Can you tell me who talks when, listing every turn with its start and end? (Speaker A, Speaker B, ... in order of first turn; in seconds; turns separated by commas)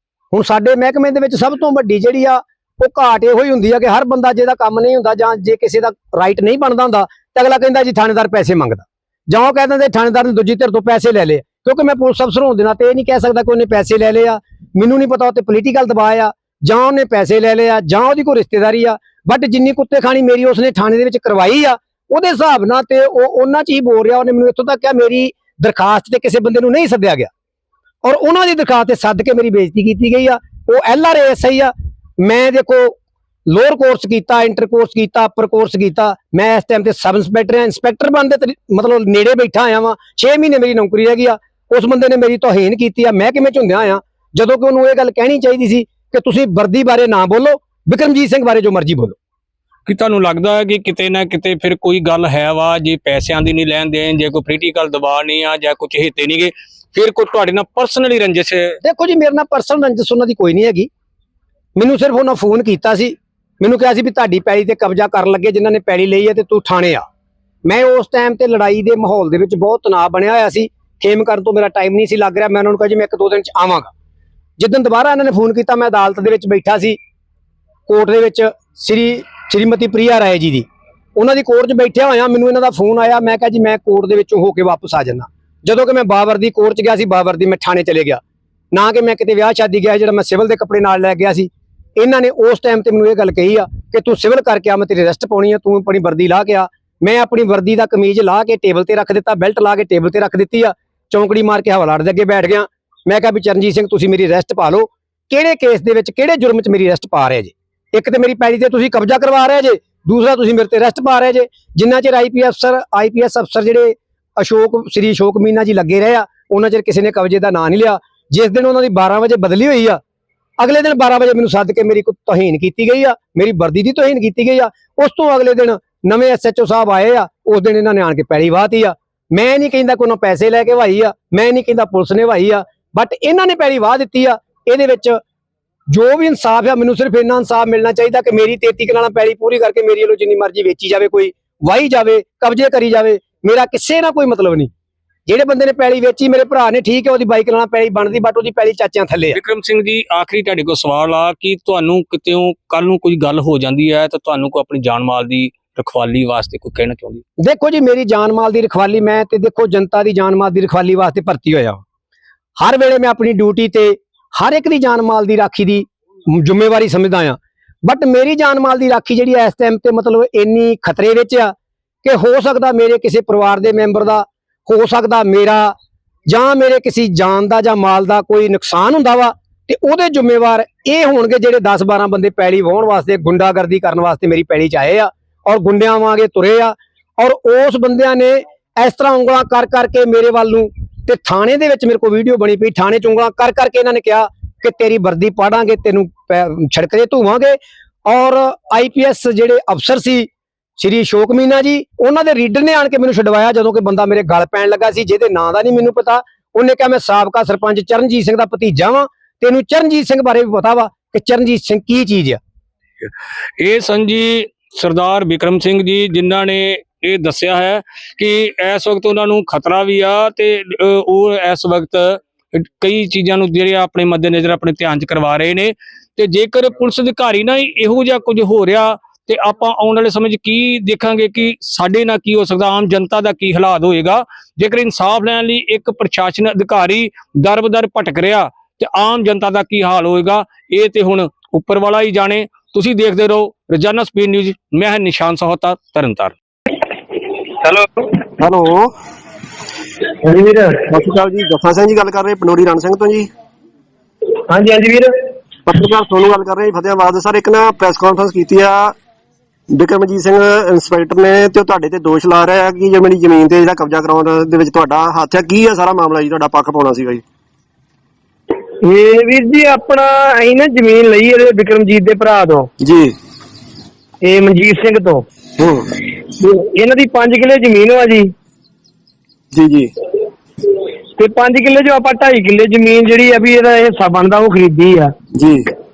Speaker A: 0.3-27.3, Speaker A: 28.0-49.1, Speaker B: 49.9-58.8, Speaker A: 58.8-60.9, Speaker A: 61.8-67.0, Speaker A: 67.7-73.9, Speaker A: 74.6-77.0, Speaker A: 77.9-88.2, Speaker A: 88.7-120.0, Speaker A: 120.6-135.2, Speaker A: 135.9-144.7, Speaker A: 145.3-149.4, Speaker B: 149.3-157.2, Speaker A: 157.4-161.8, Speaker A: 162.6-175.7, Speaker A: 176.3-212.4, Speaker B: 213.0-246.3, Speaker C: 247.5-248.2, Speaker D: 248.4-248.9, Speaker C: 250.2-250.9, Speaker D: 250.9-253.3, Speaker C: 254.5-255.1, Speaker D: 255.7-258.9, Speaker D: 259.7-267.2, Speaker C: 268.8-272.7, Speaker D: 272.8-273.1, Speaker C: 274.2-275.2, Speaker D: 275.6-275.9, Speaker C: 276.2-278.3, Speaker D: 279.5-279.9, Speaker C: 281.2-285.1, Speaker D: 285.4-285.7